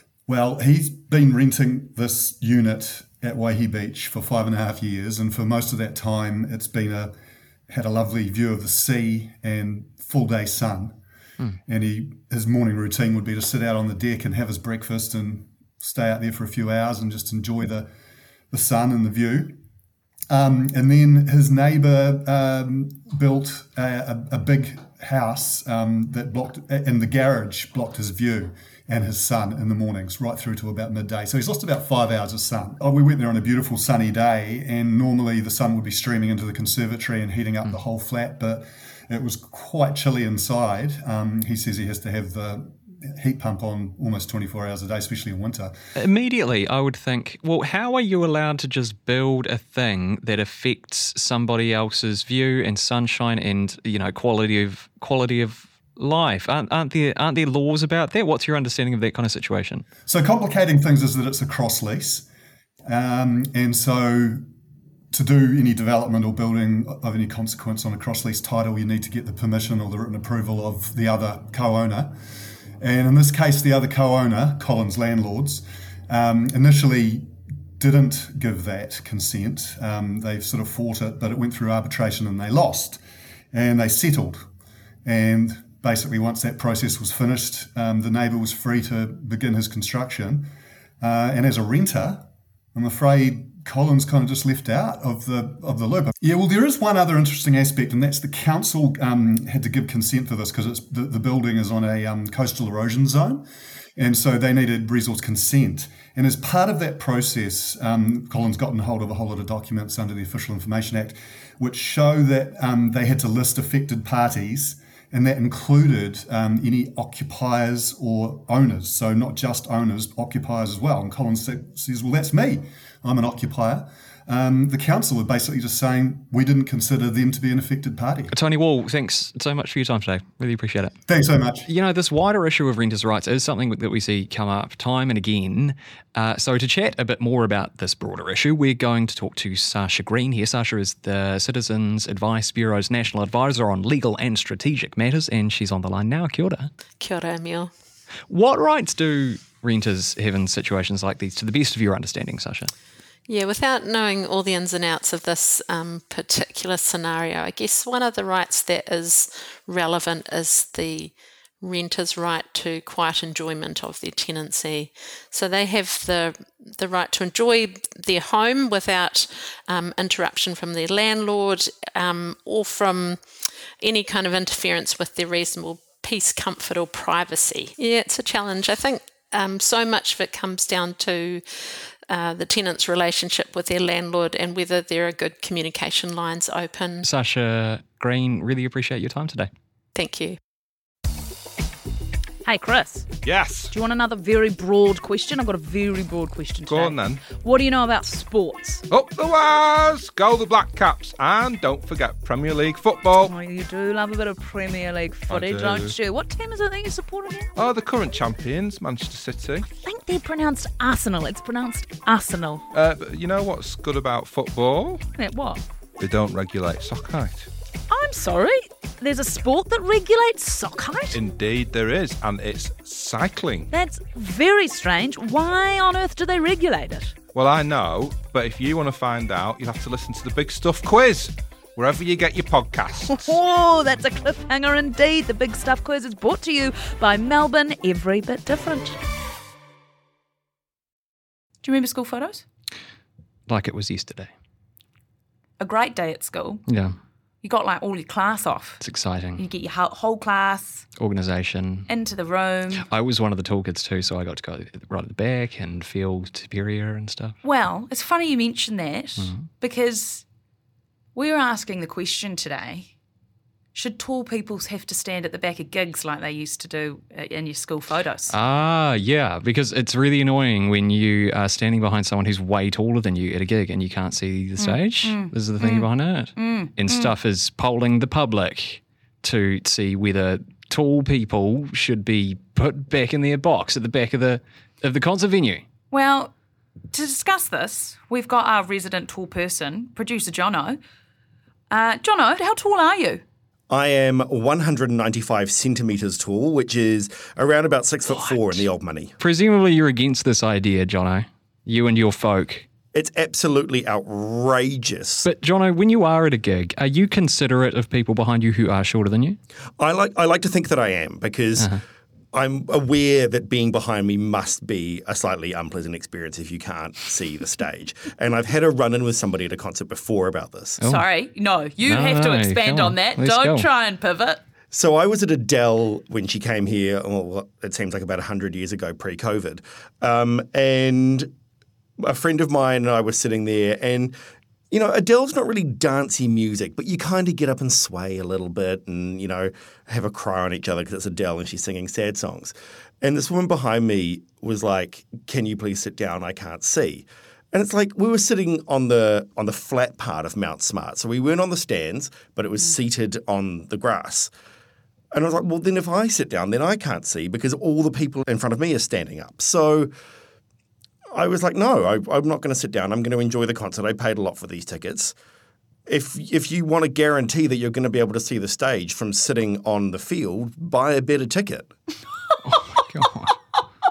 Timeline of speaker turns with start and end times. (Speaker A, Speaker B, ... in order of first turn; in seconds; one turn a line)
Speaker A: 0.3-7.2
Speaker A: 7.7-11.0
Speaker A: 11.7-17.9
Speaker A: 18.5-19.6
Speaker A: 20.3-45.7
Speaker B: 46.0-59.9
Speaker A: 60.1-62.3
Speaker A: 62.9-64.4
Speaker A: 65.1-72.2
Speaker A: 72.8-77.3
Speaker A: 77.8-83.0
Speaker A: 83.5-84.5
Speaker A: 85.0-128.4
Speaker B: 128.3-130.9
Speaker A: 131.1-131.7
Speaker B: 131.7-146.7
Speaker C: 147.0-147.7
Speaker B: 148.3-152.7
Speaker C: 153.3-173.2
Speaker C: 173.8-187.1
Speaker B: 187.0-189.5
Speaker C: 189.9-190.4
Speaker D: 192.4-193.1
Speaker E: 193.2-193.7
Speaker D: 193.7-198.8
Speaker E: 196.7-197.3
Speaker E: 198.9-203.3
Speaker D: 203.2-207.6
Speaker E: 205.3-206.0
Speaker E: 207.6-209.7
Speaker D: 209.7-212.7
Speaker E: 212.7-215.0
Speaker D: 215.2-215.6
Speaker E: 216.0-217.5
Speaker D: 217.9-221.2
Speaker E: 221.1-223.7
Speaker D: 223.7-227.1
Speaker E: 227.3-233.4
Speaker D: 233.1-239.1
Speaker D: 241.6-242.4
Speaker B: 243.5-244.3
Speaker D: 245.6-246.6
Speaker B: 246.7-246.9
Speaker D: 247.4-248.8
Speaker B: 248.8-249.5
Speaker D: 249.4-250.9
Speaker B: 251.0-251.9
Speaker D: 251.9-252.9
Speaker B: 252.9-257.4
Speaker D: 257.4-260.2
Speaker B: 259.2-259.4
Speaker D: 261.1-262.9
Speaker D: 263.7-268.4
Speaker B: 268.3-285.6
Speaker D: 274.6-277.1
Speaker D: 285.9-286.3
Speaker D: 286.9-290.8
Speaker D: 291.7-293.2
Speaker F: 293.7-299.2
Speaker B: 299.2-302.7
Speaker F: 302.9-305.3
Speaker B: 305.2-309.4
Speaker F: 309.8-311.7
Speaker F: 312.3-320.8
Speaker B: 320.8-321.1
Speaker D: 320.8-324.4
Speaker B: 321.8-323.7
Speaker F: 324.7-331.3
Speaker F: 332.0-334.1
Speaker F: 334.7-354.3
Speaker F: 355.1-359.9
Speaker F: 361.1-365.1
Speaker F: 365.9-371.7
Speaker B: 372.4-373.3
Speaker D: 372.5-372.8